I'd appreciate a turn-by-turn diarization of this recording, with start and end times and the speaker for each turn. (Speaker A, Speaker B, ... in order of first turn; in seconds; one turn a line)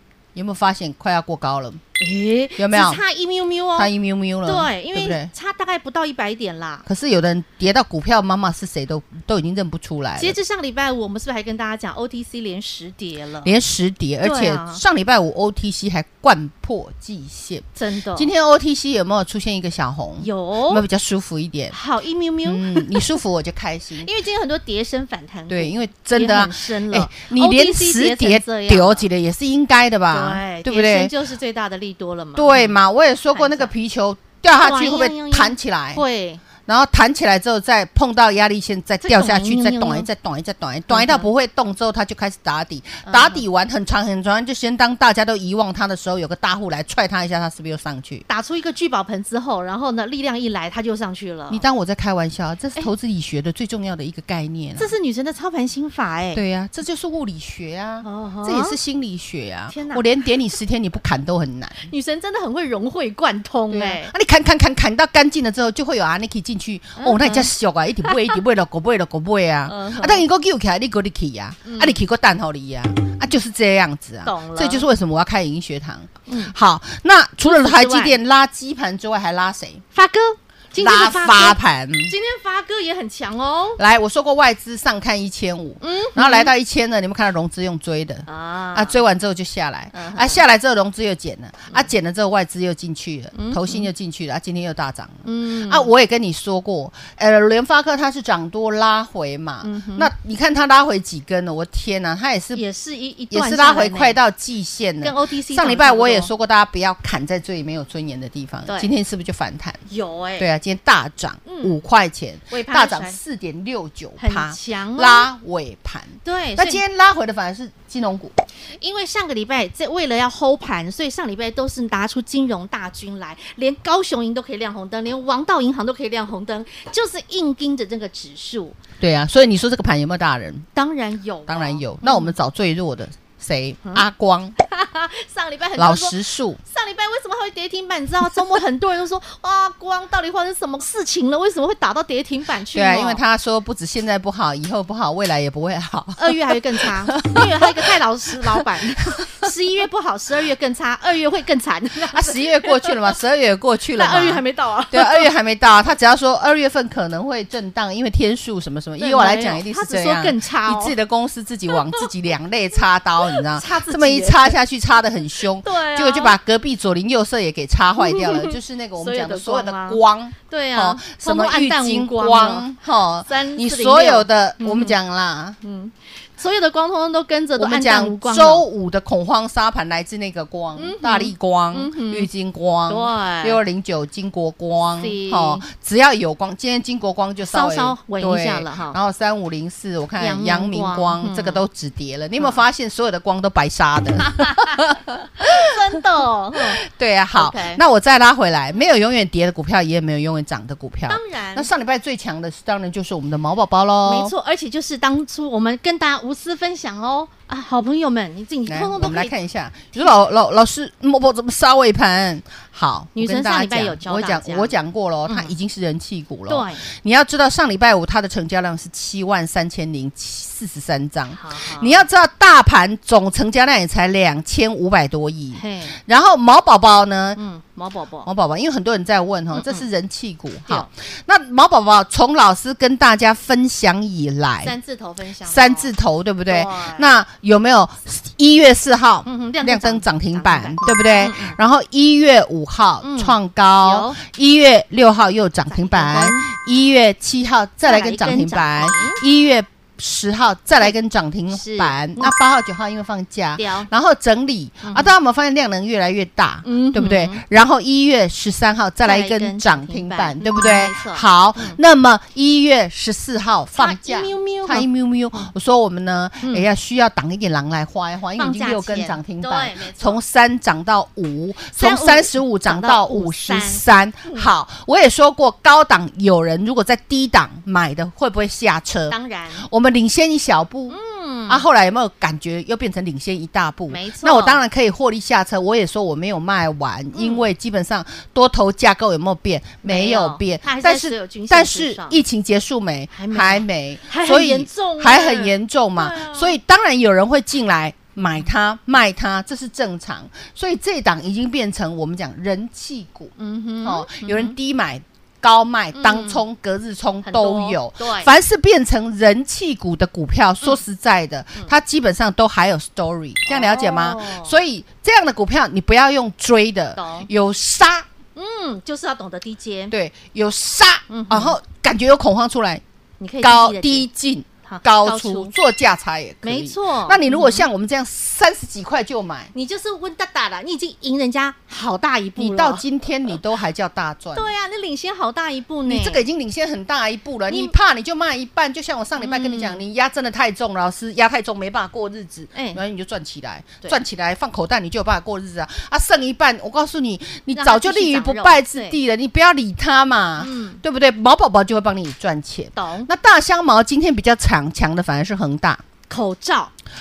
Speaker A: 0.3-1.8
Speaker B: 2.0-3.9
Speaker A: 2.6-3.0
Speaker A: 3.7-5.3
Speaker B: 4.4-6.8
Speaker A: 6.8-10.4
Speaker B: 10.2-13.6
Speaker A: 13.4-21.7
Speaker B: 14.2-14.8
Speaker B: 17.8-18.3
Speaker B: 20.2-20.8
Speaker B: 21.7-23.1
Speaker A: 22.4-24.1
Speaker B: 24.0-29.1
Speaker A: 25.5-31.1
Speaker B: 30.1-32.8
Speaker A: 32.3-36.0
Speaker B: 33.3-33.7
Speaker B: 34.6-36.4
Speaker A: 36.6-48.2
Speaker B: 39.0-40.1
Speaker B: 40.9-41.3
Speaker B: 43.0-43.4
Speaker B: 48.3-51.6
Speaker A: 51.5-54.9
Speaker B: 54.8-56.4
Speaker A: 56.3-61.9
Speaker B: 58.0-58.8
Speaker B: 59.7-60.1
Speaker B: 61.8-64.1
Speaker A: 63.7-79.8
Speaker B: 67.0-67.5
Speaker B: 69.7-70.2
Speaker B: 71.6-72.0
Speaker B: 74.2-74.8
Speaker B: 76.3-76.5
Speaker B: 77.4-78.2
Speaker B: 79.9-83.8
Speaker A: 80.7-82.1
Speaker A: 83.8-102.6
Speaker B: 85.8-86.5
Speaker B: 88.2-89.0
Speaker B: 89.9-90.4
Speaker B: 93.3-93.9
Speaker B: 95.2-95.9
Speaker B: 99.6-100.1
Speaker B: 102.5-104.2
Speaker A: 103.3-109.8
Speaker B: 105.0-106.3
Speaker B: 108.7-108.9
Speaker B: 109.9-110.5
Speaker A: 110.4-118.3
Speaker B: 111.5-111.8
Speaker B: 112.5-113.2
Speaker B: 114.2-115.3
Speaker B: 116.2-116.8
Speaker B: 118.7-128.8
Speaker A: 129.0-130.7
Speaker B: 130.7-132.3
Speaker A: 131.5-134.6
Speaker B: 134.6-143.2
Speaker A: 135.7-136.6
Speaker A: 142.7-147.9
Speaker B: 146.2-153.1
Speaker A: 152.1-175.6
Speaker B: 153.9-155.3
Speaker B: 159.0-160.9
Speaker B: 163.2-164.6
Speaker B: 165.6-166.4
Speaker B: 168.0-172.7
Speaker B: 173.2-175.0
Speaker B: 175.6-178.6
Speaker A: 177.6-195.6
Speaker B: 180.8-182.3
Speaker B: 182.9-183.6
Speaker B: 184.9-185.7
Speaker B: 187.4-189.0
Speaker B: 190.2-191.6
Speaker B: 194.2-194.8
Speaker B: 195.4-196.8
Speaker A: 196.6-204.3
Speaker B: 197.3-197.8
Speaker B: 201.1-201.7
Speaker B: 204.0-209.3
Speaker A: 208.7-227.4
Speaker B: 213.2-214.7
Speaker B: 215.3-215.5
Speaker B: 216.5-216.8
Speaker B: 221.3-222.0
Speaker B: 225.5-226.0
Speaker B: 227.3-228.3
Speaker A: 228.2-234.7
Speaker B: 229.5-229.8
Speaker B: 234.6-235.9
Speaker A: 235.4-318.1
Speaker B: 236.4-237.1
Speaker B: 239.2-241.6
Speaker B: 243.0-244.2
Speaker B: 245.7-246.5
Speaker B: 247.8-249.2
Speaker B: 251.5-252.3
Speaker B: 253.6-253.9
Speaker B: 254.8-255.1
Speaker B: 256.6-257.4
Speaker B: 259.0-261.8
Speaker B: 263.7-265.5
Speaker B: 268.4-270.2
Speaker B: 271.8-274.5
Speaker B: 279.1-279.7
Speaker B: 280.9-281.6
Speaker B: 283.9-284.6
Speaker B: 287.1-287.4
Speaker B: 289.8-292.2
Speaker B: 293.1-296.6
Speaker B: 303.4-304.5
Speaker B: 305.9-306.4
Speaker B: 307.2-308.3
Speaker B: 313.5-314.6
Speaker B: 316.9-317.3
Speaker B: 318.4-319.9
Speaker A: 319.9-322.8
Speaker B: 321.1-321.6
Speaker B: 323.2-324.1
Speaker A: 323.4-329.5
Speaker B: 324.7-325.5
Speaker B: 326.4-327.6
Speaker B: 329.5-332.8
Speaker A: 332.4-334.5
Speaker B: 334.3-336.2
Speaker A: 335.8-355.8
Speaker B: 337.5-337.7
Speaker B: 339.2-339.8
Speaker B: 342.5-342.8
Speaker B: 347.5-349.0
Speaker B: 350.4-350.8
Speaker B: 352.7-353.1
Speaker B: 356.1-356.7